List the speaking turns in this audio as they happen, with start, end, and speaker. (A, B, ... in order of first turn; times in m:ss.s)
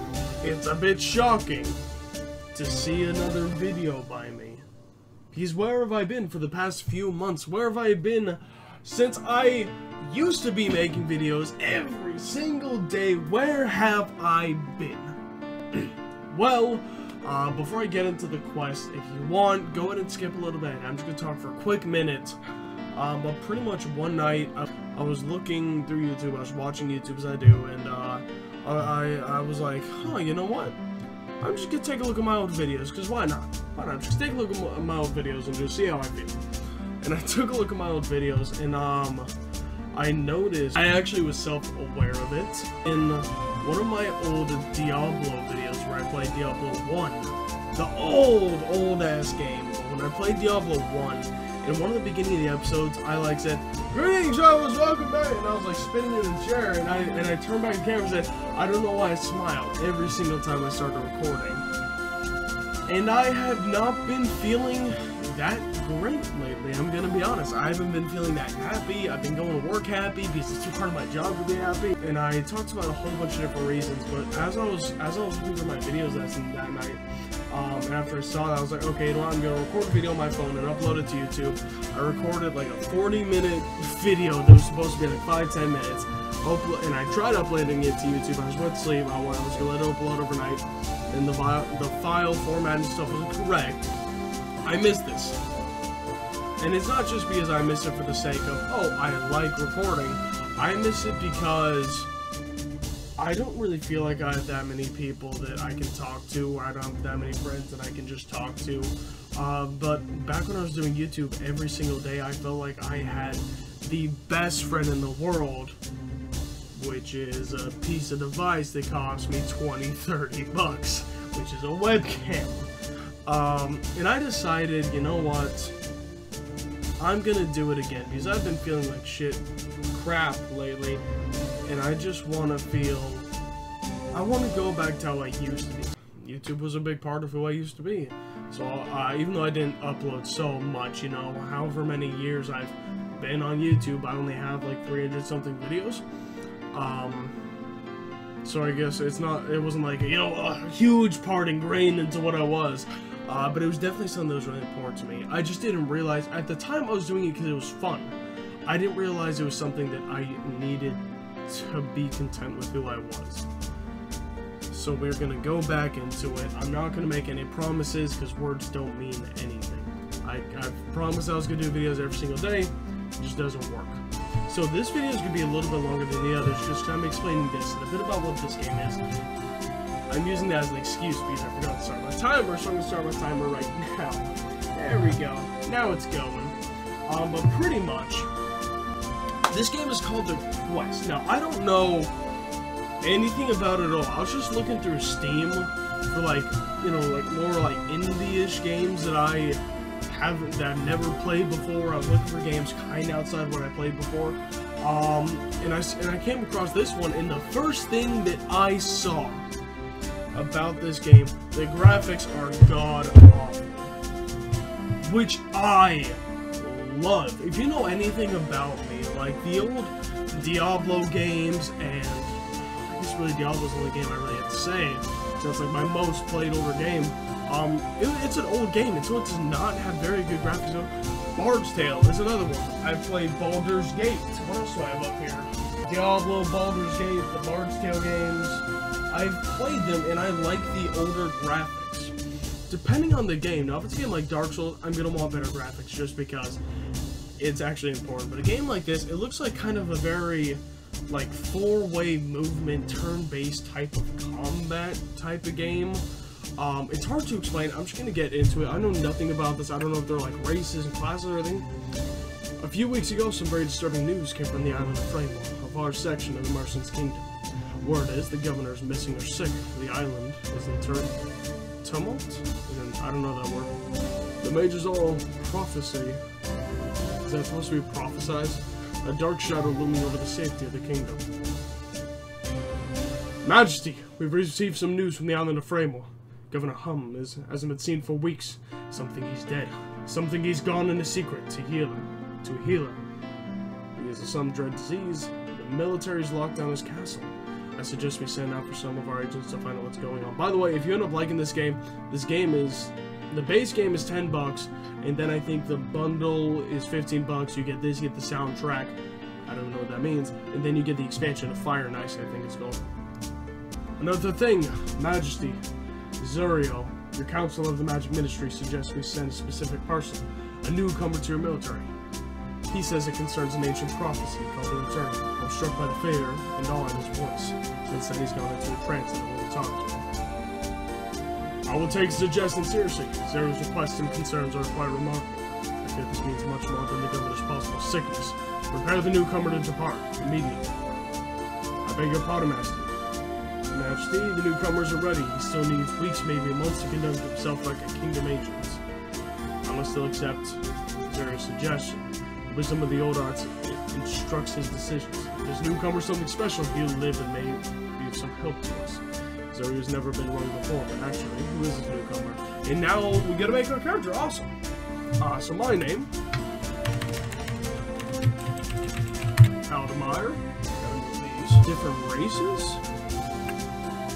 0:00.4-0:01.8 A
0:02.5-0:04.6 A
0:05.3-0:15.2 A
0:15.7-0:22.4 A
0:22.9-0:30.8 A
0:31.4-0:36.4 A
0:37.0-0:39.3 A
0:39.9-1:01.6 A
1:02.9-1:33.9 A
1:34.6-1:35.4 A
1:36.6-1:42.1 A
1:43.2-1:55.8 A
1:56.7-2:02.7 A
2:03.2-2:05.7 A
2:07.0-2:11.0 A
2:11.6-2:13.3 A
2:14.1-2:26.0 A
2:26.7-2:27.4 A
2:28.4-2:43.5 A
2:44.7-2:59.0 A
3:00.1-3:08.3 A
3:09.5-3:12.1 A
3:13.0-3:29.4 A
3:30.3-3:33.9 A
3:35.0-4:02.1 A
4:02.7-4:06.6 A
4:07.4-4:16.0 A
4:16.6-4:21.7 A
4:22.6-4:31.2 A
4:31.8-4:33.7 A
4:34.4-4:36.2 A
4:37.2-4:41.2 A
4:43.4-4:53.1 A
4:53.9-5:12.9 A
5:14.0-5:15.6 A
5:16.2-5:21.9 A
5:22.7-5:30.1 A
5:31.6-5:40.8 A
5:41.8-5:43.0 A
5:43.7-5:48.8 A
5:49.6-6:04.6 A
6:05.2-6:06.1 A
6:09.6-6:12.8 A